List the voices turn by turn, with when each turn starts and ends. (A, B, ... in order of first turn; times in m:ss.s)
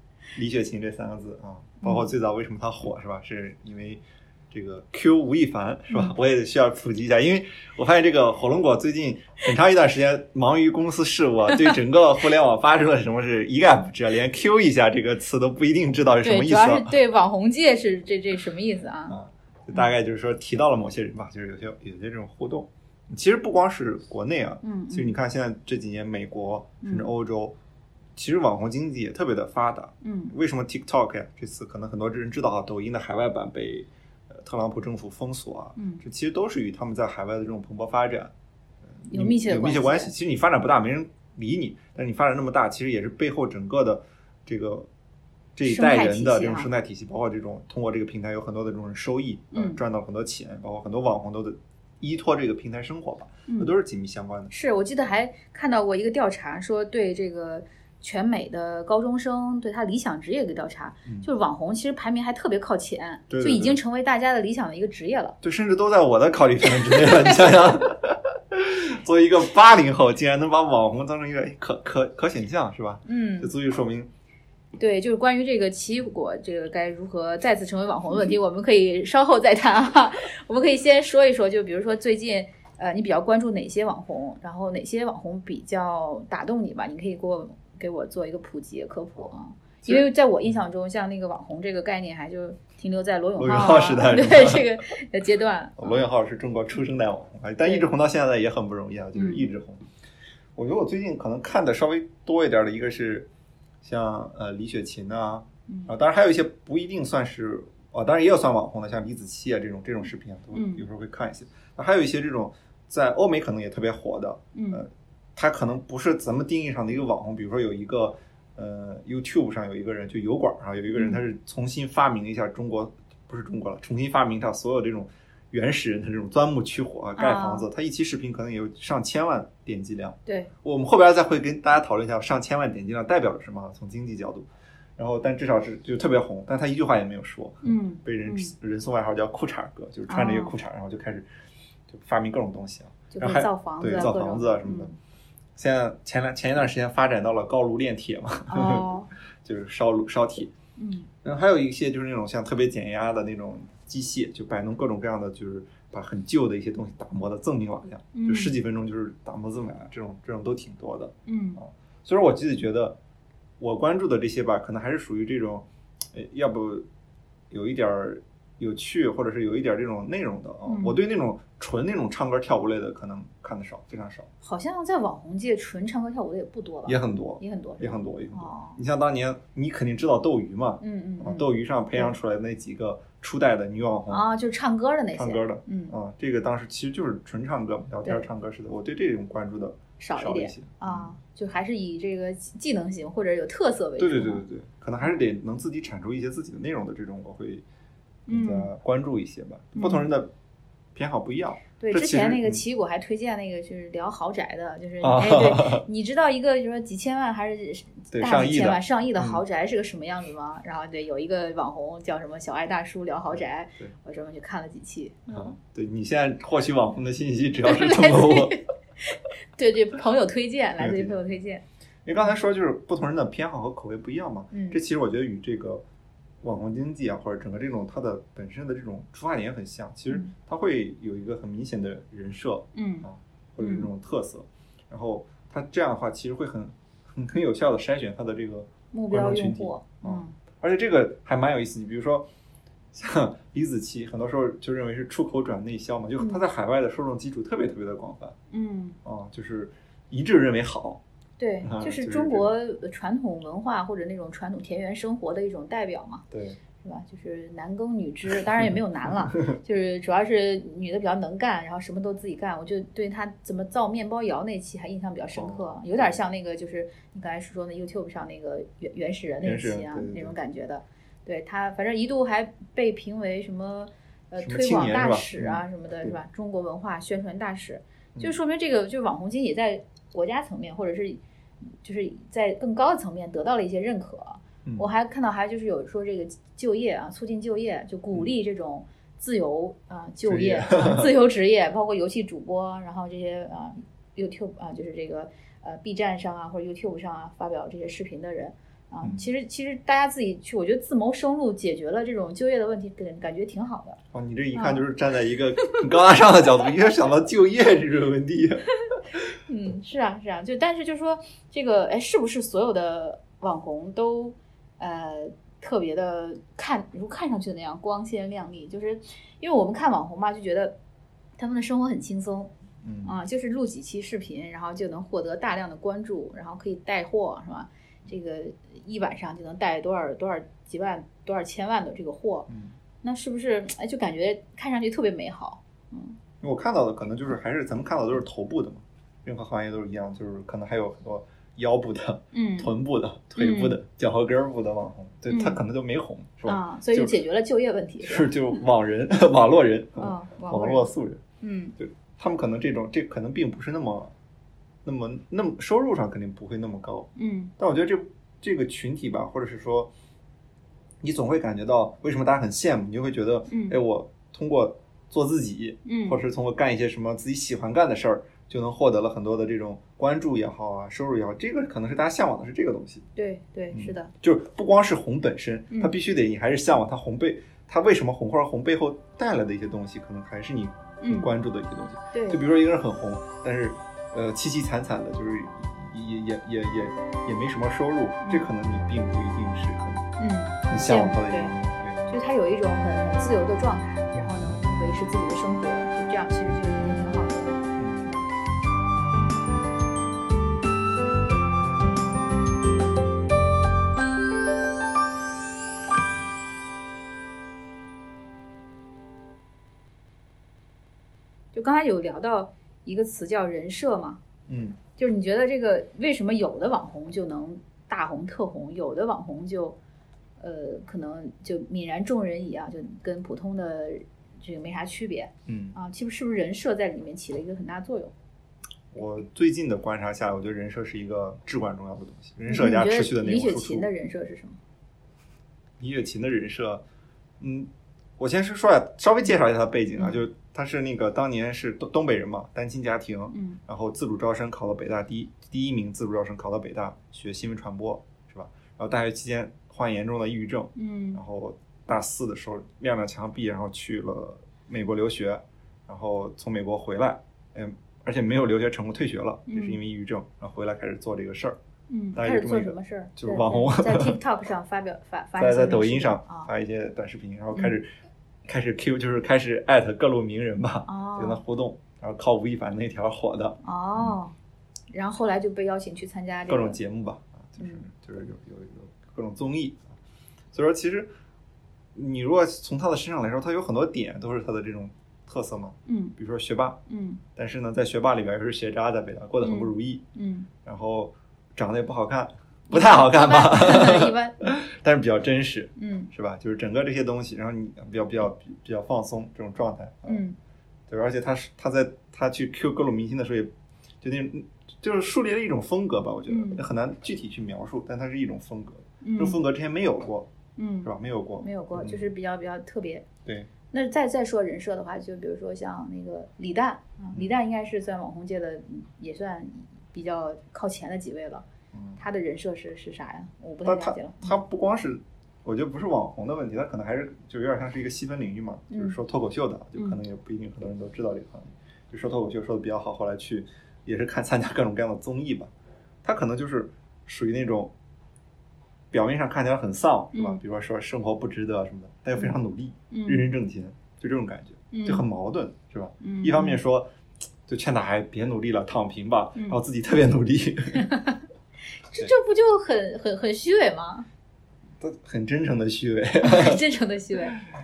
0:00.3-0:17.0 A
0:01.8-0:02.1 B
0:16.2-0:19.2 B
0:19.1-0:27.6 A
0:24.6-0:25.2 B
0:26.8-0:27.1 B
0:28.1-0:38.3 A
0:30.0-0:30.4 B
0:35.8-0:36.0 B
0:39.0-0:44.9 A
0:39.1-0:40.1 B
0:45.6-0:54.5 A
0:45.6-0:46.7 B
0:49.5-0:49.8 B
0:53.5-0:53.7 B
0:54.5-1:05.4 B
1:03.3-1:03.8 A
1:05.4-1:14.1 A
1:06.9-1:07.4 B
1:13.0-1:13.5 B
1:14.8-1:36.0 B
1:33.4-1:34.7 A
1:35.8-1:39.8 A
1:37.6-1:37.9 B
1:39.1-1:39.5 B
1:40.6-1:43.3 A
1:43.8-2:21.3 A
1:45.7-1:45.9 B
1:50.5-1:50.8 B
1:54.5-1:54.8 B
2:00.9-2:01.2 B
2:07.2-2:07.7 B
2:17.6-2:18.5 B
2:20.1-2:20.5 B
2:21.9-2:24.9 A
2:23.1-2:24.9 B
2:25.6-2:28.8 A
2:28.5-2:29.1 B
2:29.4-2:30.5 A
2:30.8-2:31.1 B
2:31.2-2:43.0 A
2:38.1-2:38.5 B
2:41.3-2:41.6 B
2:43.6-2:46.8 A
2:47.5-2:54.3 A
2:50.6-2:51.0 B
2:54.4-2:58.8 B
2:56.8-3:04.2 A
3:00.8-3:02.1 B
3:04.1-3:05.9 B
3:05.1-3:11.1 A
3:10.0-3:14.4 B
3:14.0-3:17.6 A
3:18.3-3:18.7 B
3:18.3-3:20.3 A
3:19.8-3:20.1 B
3:20.9-3:22.6 A
3:21.8-3:35.5 B
3:25.0-3:25.8 A
3:28.1-3:29.4 A
3:33.3-3:33.9 A
3:35.3-3:38.6 A
3:37.6-3:41.6 B
3:40.8-3:41.2 A
3:42.0-3:45.8 A
3:44.5-3:44.8 B
3:46.4-4:02.3 A
3:52.7-3:53.1 B
3:53.6-3:53.9 B
3:58.9-4:00.4 B
4:02.9-4:08.4 A
4:08.5-4:09.0 B
4:09.0-4:11.0 A
4:11.4-4:16.2 B
4:11.6-4:12.5 A
4:16.3-4:16.6 A
4:16.8-4:41.2 B
4:25.3-4:26.1 A
4:29.4-4:30.4 A
4:34.4-4:36.1 A
4:41.8-5:04.0 B
4:50.2-4:51.1 A
4:59.0-4:59.3 A
5:04.1-5:09.2 A
5:04.5-5:04.8 B
5:09.4-5:20.8 B
5:21.4-5:22.5 B
5:22.8-5:23.1 A
5:23.0-5:32.5 B
5:32.5-5:32.8 A
5:33.0-5:36.2 B
5:36.4-5:47.1 A
5:42.3-5:42.7 B
5:43.4-5:43.8 B
5:45.3-5:45.6 B
5:46.4-5:48.6 B
5:48.0-5:51.2 A
5:50.0-5:50.9 B
5:51.4-5:51.8 B
5:51.8-5:54.1 A
5:54.8-5:59.9 A
5:57.2-5:57.5 B
6:01.0-6:13.0 A
6:03.5-6:03.8 B
6:05.8-6:06.2 B
6:13.2-6:14.1 B
6:13.7-6:30.0 A
6:21.0-6:21.3 B
6:22.1-6:22.4 B
6:30.2-6:31.5 B
6:30.7-6:32.2 A
6:32.1-6:38.3 B
6:37.8-6:38.1 A
6:51.5-6:54.2 B
6:54.5-6:54.8 A
6:55.0-6:59.8 B
7:00.4-7:08.1 B
7:05.5-7:05.8 A
7:08.9-7:13.9 A
7:12.5-7:14.6 B
7:15.8-7:16.8 A
7:17.4-7:41.6 A
7:20.0-7:20.2 B
7:23.3-7:23.6 B
7:30.7-7:31.2 B
7:39.5-7:39.8 B
7:41.9-7:46.5 B
7:42.1-7:44.2 A
7:45.4-7:47.9 A
7:48.4-7:54.2 A
7:50.9-7:51.4 B
7:53.6-7:54.3 B
7:54.9-7:56.8 B
7:56.5-8:00.0 A
7:57.6-7:57.8 B
8:00.5-8:01.1 A
8:01.9-8:06.8 A
8:05.9-8:06.1 B
8:06.9-8:07.2 B
8:07.3-8:10.0 A
8:09.4-8:10.5 B
8:10.6-8:20.2 A
8:12.7-8:14.3 B
8:15.8-8:16.1 B
8:20.0-8:20.4 B
8:20.9-8:30.3 A
8:26.3-8:26.6 B
8:29.0-8:29.4 B
8:30.6-8:33.1 B
8:30.8-8:32.1 A
8:33.2-8:33.5 A
8:33.7-8:41.4 B
8:41.7-8:42.0 A
8:42.0-8:44.4 B
8:43.6-8:55.5 A
8:48.7-8:49.0 B
8:56.0-8:57.7 A
8:58.9-9:06.9 A
9:00.1-9:00.4 B
9:02.9-9:03.3 B
9:04.7-9:05.0 B
9:06.0-9:06.6 B
9:07.5-9:10.9 A
9:10.8-9:11.2 B
9:11.8-9:14.1 B
9:14.8-9:16.6 A
9:16.2-9:17.4 B